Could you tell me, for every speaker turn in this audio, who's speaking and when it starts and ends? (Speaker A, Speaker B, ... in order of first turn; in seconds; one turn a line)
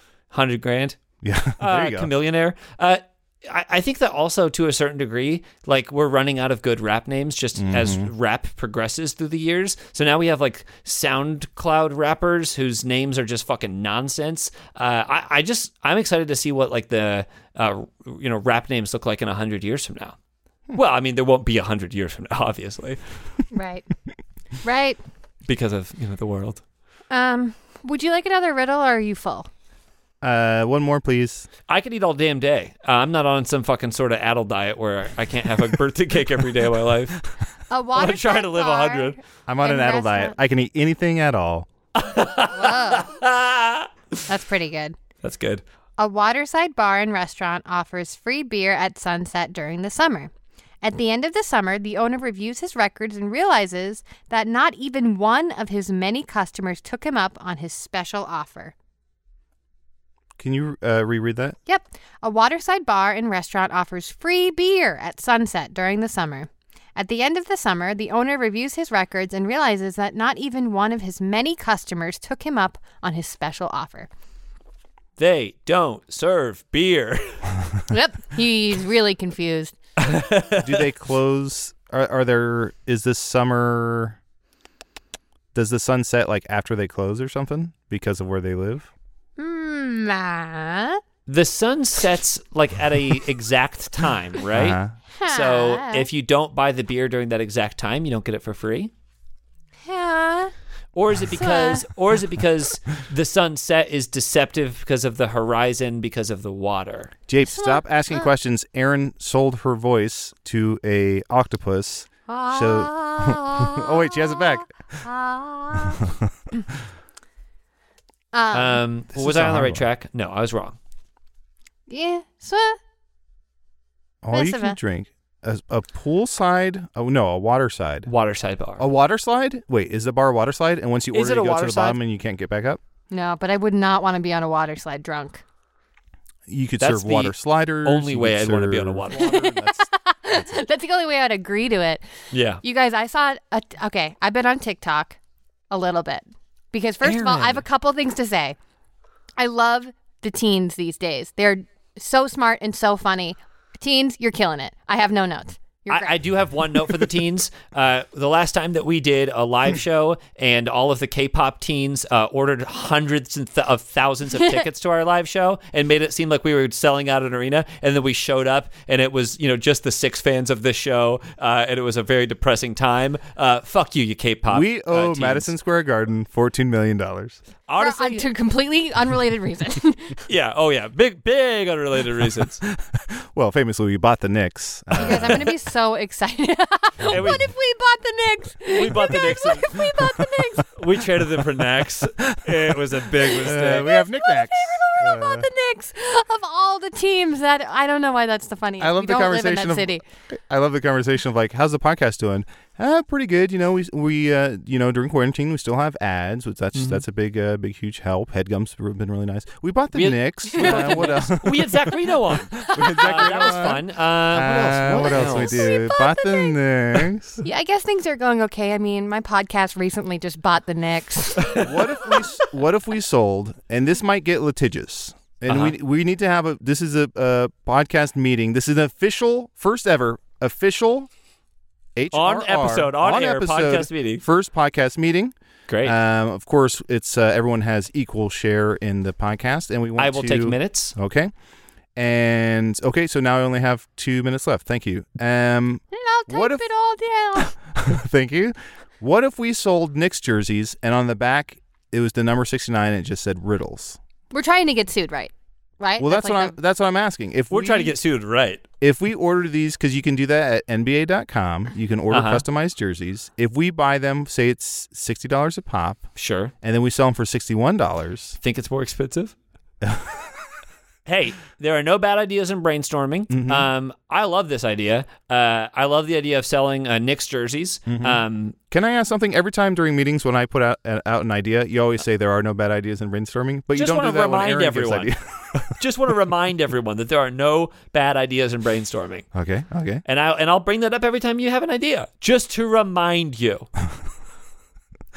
Speaker A: 0.3-1.0
Speaker B: 1.2-2.1
Speaker A: 1.6-20.1
Speaker B: 7.6-8.1
Speaker A: 20.7-23.0
Speaker C: 23.5-23.9
Speaker C: 24.6-25.0
Speaker A: 25.5-26.6
Speaker C: 27.1-29.5
Speaker B: 30.2-31.5
Speaker A: 31.7-37.2
Speaker C: 37.7-40.4
Speaker A: 38.0-39.1
Speaker B: 39.5-41.7
Speaker A: 42.0-43.9
Speaker C: 42.5-43.1
Speaker C: 44.3-45.0
Speaker A: 45.2-45.6
Speaker C: 46.0-50.3
Speaker C: 50.8-58.7
Speaker B: 60.4-61.6
Speaker C: 61.7-74.1
Speaker A: 75.2-77.5
Speaker C: 77.9-79.8
Speaker A: 80.0-80.8
Speaker B: 80.6-84.2
Speaker B: 85.5-88.9
Speaker C: 89.4-91.0
Speaker A: 91.3-98.9
Speaker B: 94.5-94.9
Speaker C: 95.1-96.1
Speaker C: 99.8-100.5
Speaker A: 100.9-107.1
Speaker C: 101.3-101.8
Speaker B: 107.3-114.7
Speaker C: 107.4-108.3
Speaker C: 112.3-116.0
Speaker C: 118.3-118.8
Speaker A: 118.5-120.8
Speaker B: 119.1-119.8
Speaker C: 121.9-122.8
Speaker B: 124.2-128.1
Speaker C: 124.3-124.8
Speaker A: 128.1-128.9
Speaker B: 128.8-132.8
Speaker A: 131.1-132.0
Speaker C: 133.1-135.4
Speaker B: 136.5-140.5
Speaker A: 136.8-139.5
Speaker C: 139.2-142.0
Speaker A: 142.3-142.6
Speaker C: 142.6-145.2
Speaker C: 145.7-148.6
Speaker A: 147.0-147.6
Speaker C: 149.4-156.2
Speaker A: 155.9-175.5
Speaker B: 174.5-177.4
Speaker A: 177.7-178.2
Speaker C: 177.8-180.2
Speaker A: 180.3-182.6
Speaker B: 182.7-185.5
Speaker A: 184.9-185.5
Speaker C: 185.0-190.7
Speaker A: 187.1-187.5
Speaker A: 188.7-189.8
Speaker A: 190.7-193.9
Speaker B: 192.3-192.8
Speaker B: 193.3-195.5
Speaker C: 193.7-200.0
Speaker B: 198.8-217.4
Speaker A: 206.7-207.0
Speaker A: 209.9-215.7
Speaker C: 210.6-210.9
Speaker C: 212.6-213.3
Speaker C: 214.9-216.6
Speaker C: 217.4-221.7
Speaker B: 221.5-231.1
Speaker A: 225.5-225.8
Speaker B: 231.9-241.3
Speaker A: 232.1-234.2
Speaker A: 235.7-235.9
Speaker A: 240.0-240.9
Speaker B: 241.9-246.6
Speaker C: 245.9-247.5
Speaker B: 247.4-254.0
Speaker C: 254.3-256.5
Speaker B: 256.0-257.9
Speaker A: 257.5-258.6
Speaker B: 258.8-266.1
Speaker A: 262.1-262.4
Speaker A: 266.1-266.5
Speaker B: 266.6-268.4
Speaker A: 268.4-269.3
Speaker B: 269.8-270.3
Speaker A: 271.1-278.6
Speaker B: 273.3-273.7
Speaker B: 277.9-285.7
Speaker A: 283.7-285.1
Speaker A: 285.7-289.3
Speaker B: 289.3-290.0
Speaker A: 290.1-293.7